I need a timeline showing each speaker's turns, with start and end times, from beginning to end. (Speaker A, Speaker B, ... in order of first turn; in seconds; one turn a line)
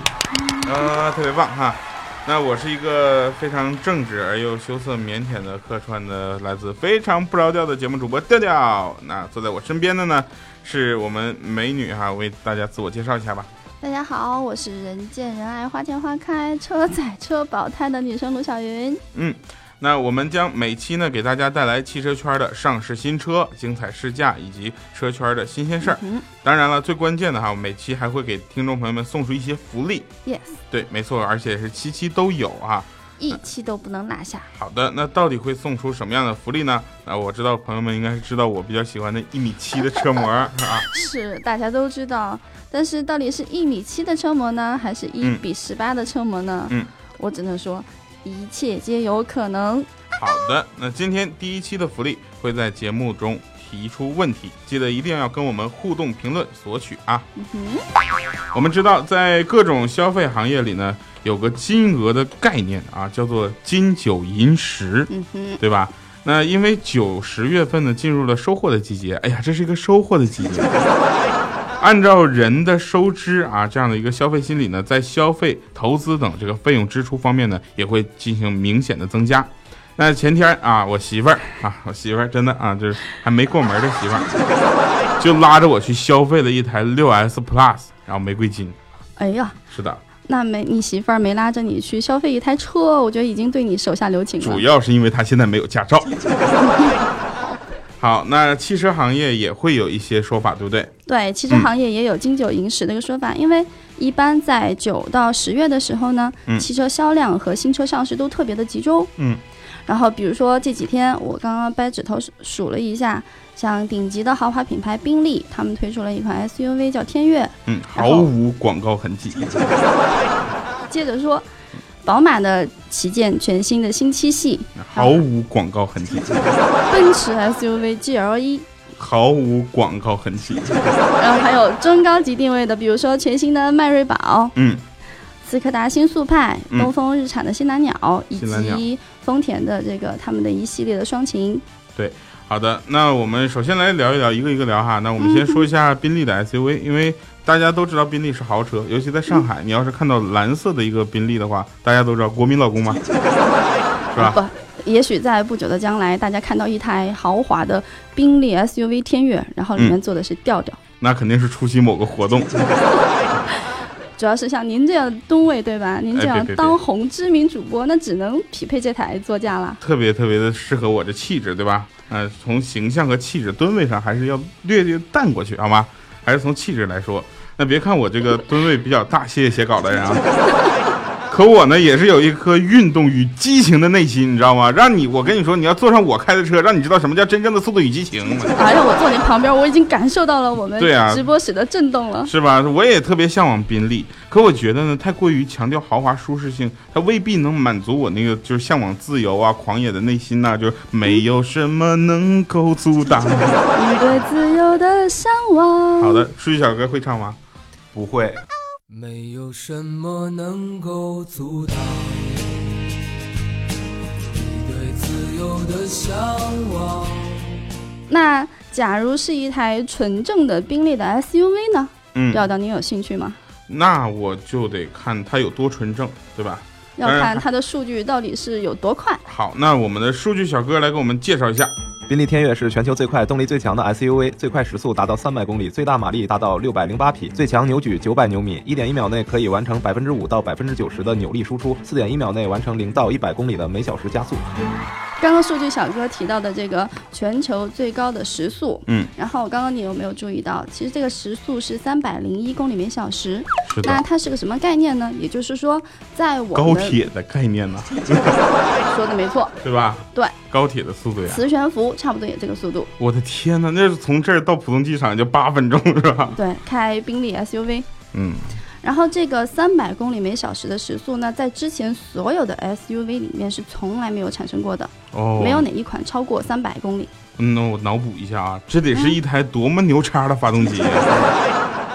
Speaker A: 0.4-0.9
Speaker B: 0.6-13.5
Speaker A: 13.8-19.0
Speaker B: 19.1-30.1
Speaker A: 25.8-26.3
Speaker A: 30.2-30.6
Speaker B: 30.7-32.9
Speaker A: 33.2-34.5
Speaker B: 34.5-40.9
Speaker A: 40.8-49.9
Speaker B: 50.1-57.2
Speaker A: 57.4-57.9
Speaker B: 58.5-70.8
Speaker A: 65.1-65.6
Speaker B: 71.8-84.4
Speaker B: 85.2-88.8
Speaker A: 89.2-89.6
Speaker B: 89.7-90.0
Speaker A: 90.2-94.7
Speaker B: 94.4-96.1
Speaker A: 96.6-97.6
Speaker B: 98.0-100.9
Speaker A: 101.1-109.1
Speaker A: 109.9-118.3
Speaker B: 117.7-119.7
Speaker A: 120.9-121.5
Speaker A: 122.0-125.2
Speaker B: 124.8-126.4
Speaker A: 126.9-128.7
Speaker B: 129.0-130.8
Speaker A: 131.2-134.6
Speaker B: 134.6-134.8
Speaker A: 135.4-141.6
Speaker B: 138.4-138.8
Speaker B: 142.0-153.0
Speaker A: 145.2-145.7
Speaker A: 153.4-160.8
Speaker B: 154.1-154.4
Speaker B: 161.0-162.7
Speaker A: 164.2-169.8
Speaker B: 166.2-166.8
Speaker B: 169.8-180.2
Speaker B: 181.3-188.6
Speaker A: 188.5-192.3
Speaker B: 190.8-191.2
Speaker B: 192.2-203.6
Speaker A: 203.7-206.3
Speaker B: 206.0-207.4
Speaker C: 207.9-208.4
Speaker D: 208.9-212.8
Speaker D: 214.3-217.6
Speaker A: 218.1-223.4
Speaker B: 222.2-222.4
Speaker B: 223.7-227.4
Speaker A: 227.0-229.2
Speaker B: 229.3-231.7
Speaker C: 232.1-244.4
Speaker A: 245.2-257.0
Speaker B: 253.7-254.0
Speaker B: 256.6-258.4
Speaker A: 258.9-259.6
Speaker B: 259.6-261.4
Speaker A: 261.2-262.9
Speaker B: 263.0-266.4
Speaker A: 266.3-267.9
Speaker B: 268.1-268.5
Speaker A: 268.8-277.1
Speaker B: 275.1-275.7
Speaker B: 277.4-281.3
Speaker A: 278.9-279.2